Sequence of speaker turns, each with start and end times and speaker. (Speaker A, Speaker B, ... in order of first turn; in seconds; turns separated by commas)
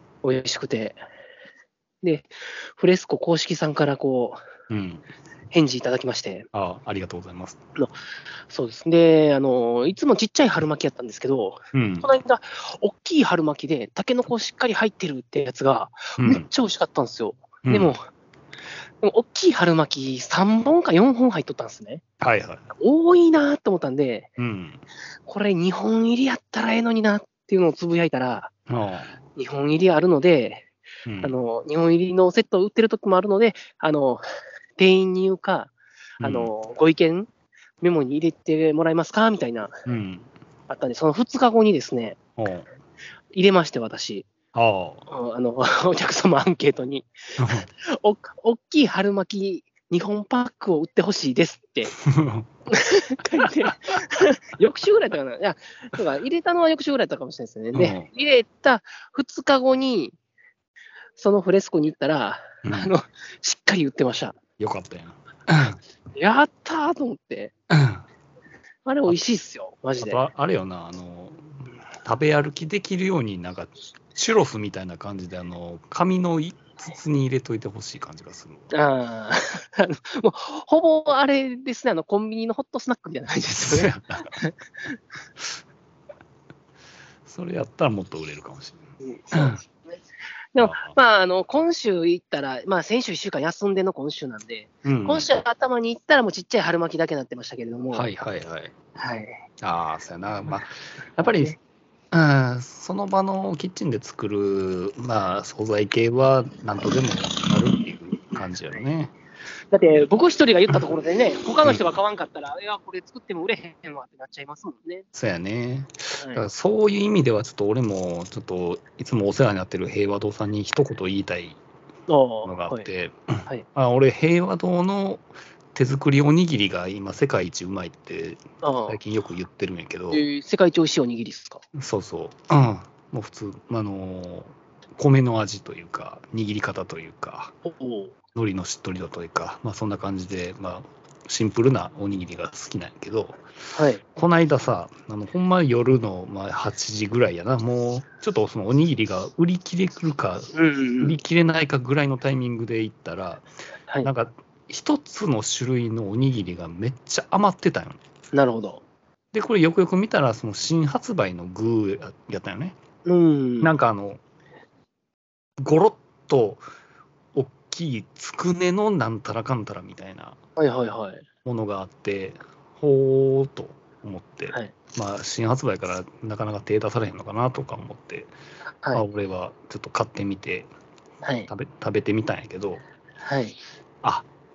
Speaker A: 0.2-1.0, Speaker A: 2.0-4.4, Speaker B: 4.7-5.0, Speaker A: 5.5-6.5, Speaker B: 6.5-7.6, Speaker A: 8.5-18.0, Speaker B: 11.7-12.1, Speaker B: 16.2-16.5, Speaker B: 17.6-17.9, Speaker A: 19.0-22.0, Speaker B: 22.2-22.7, Speaker A: 22.8-24.3, Speaker B: 24.4-24.8, Speaker A: 25.3-28.5, Speaker B: 28.7-29.1, Speaker A: 29.4-30.7, Speaker B: 31.1-31.4, Speaker A: 31.2-34.2, Speaker A: 34.8-37.3, Speaker B: 36.2-36.5, Speaker A: 37.8-39.7, Speaker B: 39.9-40.3, Speaker A: 40.7-42.2, Speaker B: 42.4-42.7, Speaker A: 43.3-44.3, Speaker B: 44.5-45.1, Speaker A: 45.1-51.9, Speaker B: 47.4-47.7, Speaker B: 52.0-52.5, Speaker A: 52.7-60.1, Speaker B: 57.7-58.1, Speaker A: 61.2-64.4, Speaker B: 62.6-62.9, Speaker B: 64.6-65.8, Speaker A: 66.2-67.5, Speaker B: 67.7-68.0, Speaker A: 68.9-70.2, Speaker B: 70.0-78.7, Speaker A: 78.7-85.0, Speaker B: 83.6-84.4, Speaker B: 87.3-89.6, Speaker A: 89.0-90.0, Speaker A: 90.5-98.1, Speaker B: 90.6-90.9, Speaker B: 94.8-95.3, Speaker B: 97.9-98.7, Speaker A: 99.0-99.4, Speaker B: 99.6-101.6, Speaker A: 101.3-101.6, Speaker B: 102.1-109.1, Speaker A: 109.7-115.1, Speaker B: 115.1-121.6, Speaker A: 116.1-116.5, Speaker A: 122.1-122.9, Speaker B: 122.5-130.2, Speaker A: 128.6-129.0, Speaker A: 130.1-131.6, Speaker B: 131.8-137.5, Speaker A: 137.6-138.2, Speaker B: 138.3-143.4, Speaker A: 143.7-144.0, Speaker B: 144.1-153.5, Speaker A: 150.6-151.2, Speaker B: 154.0-158.0, Speaker A: 158.3-158.8, Speaker B: 159.3-162.8, Speaker A: 163.1-163.7, Speaker B: 163.6-164.2, Speaker B: 165.6-166.6, Speaker B: 167.3-170.4, Speaker A: 170.6-171.2, Speaker B: 171.4-178.3, Speaker A: 178.7-179.1, Speaker B: 178.9-180.7, Speaker A: 181.2-181.5, Speaker B: 181.5-182.8, Speaker A: 183.2-183.6